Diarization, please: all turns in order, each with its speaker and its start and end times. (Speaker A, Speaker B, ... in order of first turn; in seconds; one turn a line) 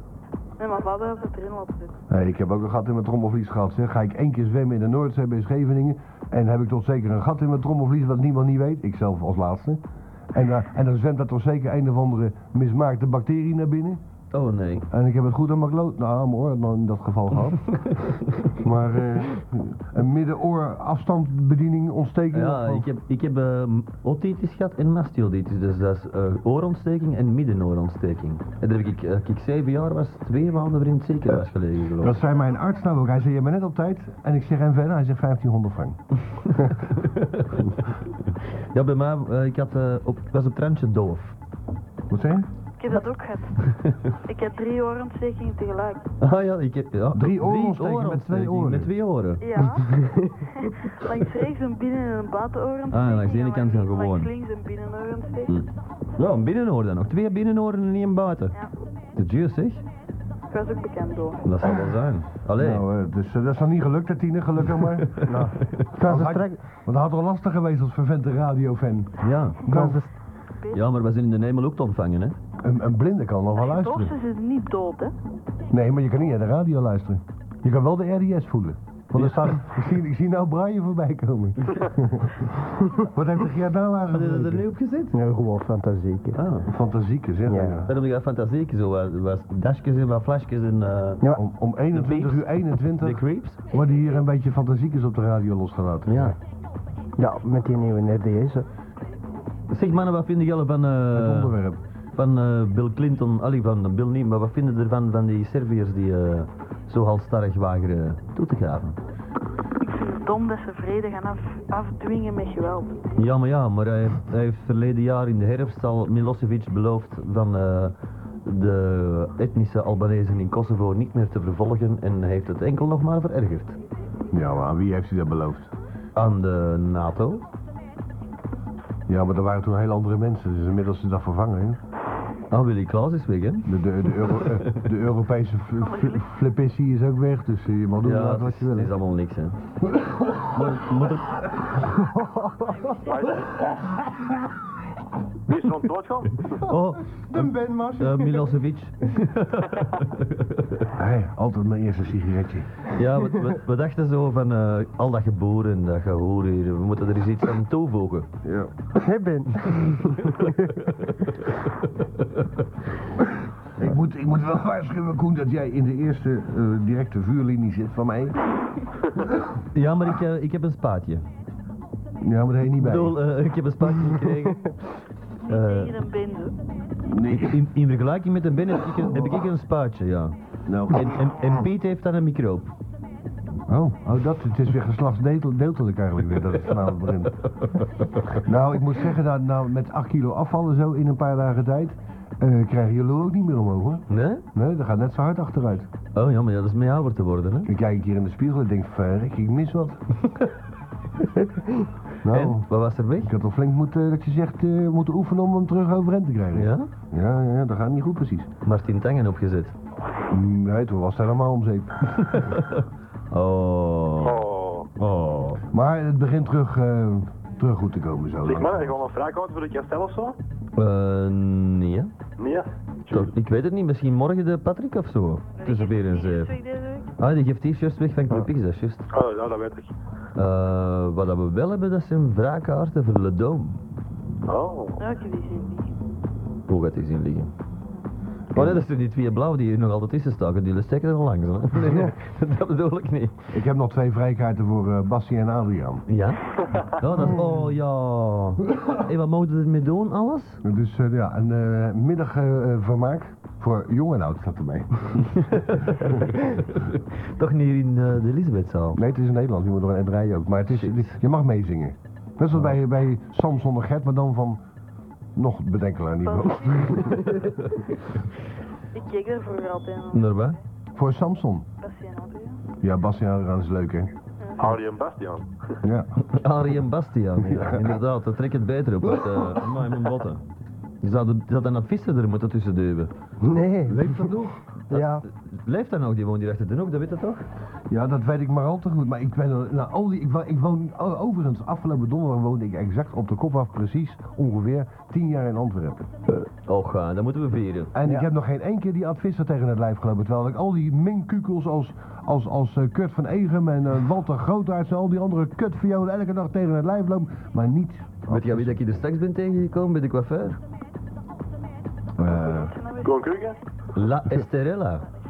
Speaker A: 0.6-1.9
Speaker B: 2.1-9.8
Speaker B: 10.3-14.0
Speaker C: 14.3-14.9
Speaker B: 14.9-17.9
Speaker B: 18.5-22.9
Speaker C: 22.3-32.2
Speaker B: 32.0-36.0
Speaker C: 36.9-37.6
Speaker C: 38.7-41.4
Speaker B: 42.1-42.5
Speaker A: 42.8-46.1
Speaker C: 46.2-49.4
Speaker B: 47.1-48.9
Speaker A: 49.4-50.0
Speaker A: 50.6-55.5
Speaker C: 52.9-54.3
Speaker C: 55.5-58.5
Speaker C: 59.2-59.8
Speaker A: 60.5-61.5
Speaker C: 61.5-62.8
Speaker B: 62.6-65.3
Speaker C: 65.1-65.9
Speaker D: 65.3-66.6
Speaker B: 66.0-70.0
Speaker C: 69.2-69.6
Speaker D: 69.7-70.1
Speaker C: 70.7-72.4
Speaker B: 72.6-74.2
Speaker A: 73.6-75.1
Speaker B: 75.7-84.7
Speaker C: 79.2-79.5
Speaker C: 84.1-85.2
Speaker D: 85.1-86.4
Speaker C: 86.3-86.7
Speaker B: 86.7-87.9
Speaker D: 87.5-87.8
Speaker C: 87.9-91.2
Speaker B: 91.3-96.4
Speaker C: 91.9-92.5
Speaker C: 93.0-93.6
Speaker C: 96.1-96.4
Speaker D: 97.2-98.7
Speaker C: 99.7-101.5
Speaker B: 101.1-101.8
Speaker C: 102.2-109.0
Speaker A: 109.8-113.0
Speaker C: 113.2-117.9
Speaker C: 118.5-123.8
Speaker B: 124.3-125.7
Speaker C: 126.2-127.4
Speaker B: 129.1-131.8
Speaker C: 132.5-134.8
Speaker B: 133.7-138.9
Speaker A: 135.8-136.2
Speaker C: 138.0-139.6
Speaker B: 139.9-140.8
Speaker C: 140.5-141.4
Speaker D: 141.9-142.8
Speaker A: 142.6-143.4
Speaker E: 143.0-143.6
Speaker E: 145.5-146.5
Speaker C: 146.6-150.9
Speaker D: 147.3-148.6
Speaker B: 150.9-152.8
Speaker C: 152.9-158.3
Speaker B: 158.4-158.7
Speaker D: 158.9-160.9
Speaker B: 163.8-168.4
Speaker C: 169.7-171.2
Speaker B: 172.2-173.2
Speaker C: 172.8-174.8
Speaker A: 175.4-176.6
Speaker C: 175.5-175.9
Speaker B: 177.1-177.6
Speaker C: 177.3-180.4
Speaker B: 180.7-181.2
Speaker C: 180.9-182.7
Speaker B: 183.7-187.4
Speaker C: 187.6-188.3
Speaker B: 188.4-195.9
Speaker C: 194.1-194.4
Speaker C: 196.2-197.7
Speaker B: 197.7-200.0
Speaker B: 202.2-202.7
Speaker C: 202.3-203.3
Speaker B: 203.2-208.5
Speaker C: 206.5-206.9
Speaker C: 208.6-209.7
Speaker B: 210.3-212.4
Speaker C: 212.2-214.4
Speaker E: 214.2-214.9
Speaker C: 215.0-215.6
Speaker B: 215.7-219.0
Speaker E: 218.4-220.4
Speaker C: 220.8-222.1
Speaker E: 222.4-223.3
Speaker C: 223.1-226.5
Speaker A: 225.6-227.1
Speaker C: 227.2-229.1
Speaker E: 229.1-229.9
Speaker C: 230.4-233.8
Speaker E: 234.5-235.0
Speaker A: 235.0-235.9
Speaker C: 236.7-237.5
Speaker B: 238.5-238.8
Speaker C: 238.5-243.4
Speaker B: 243.5-246.1
Speaker C: 246.1-250.6
Speaker B: 250.6-256.2
Speaker C: 255.4-259.0
Speaker B: 258.9-264.6
Speaker C: 260.7-261.2
Speaker B: 265.4-267.5
Speaker A: 266.2-267.6
Speaker A: 268.9-270.6
Speaker C: 270.1-270.6
Speaker B: 271.0-271.7
Speaker A: 271.8-272.6
Speaker B: 272.8-274.1
Speaker A: 274.4-274.8
Speaker E: 274.6-275.5
Speaker B: 275.8-276.1
Speaker C: 276.2-280.4
Speaker B: 277.4-278.0
Speaker B: 279.3-279.6
Speaker C: 281.0-283.1
Speaker D: 283.4-284.3
Speaker B: 283.9-284.6
Speaker C: 284.9-287.5
Speaker D: 284.9-285.2
Speaker B: 287.9-296.1
Speaker C: 296.7-297.9
Speaker B: 297.9-308.8
Speaker C: 308.3-310.6
Speaker B: 312.2-312.8
Speaker A: 312.3-313.4
Speaker E: 313.0-313.6
Speaker C: 313.9-315.1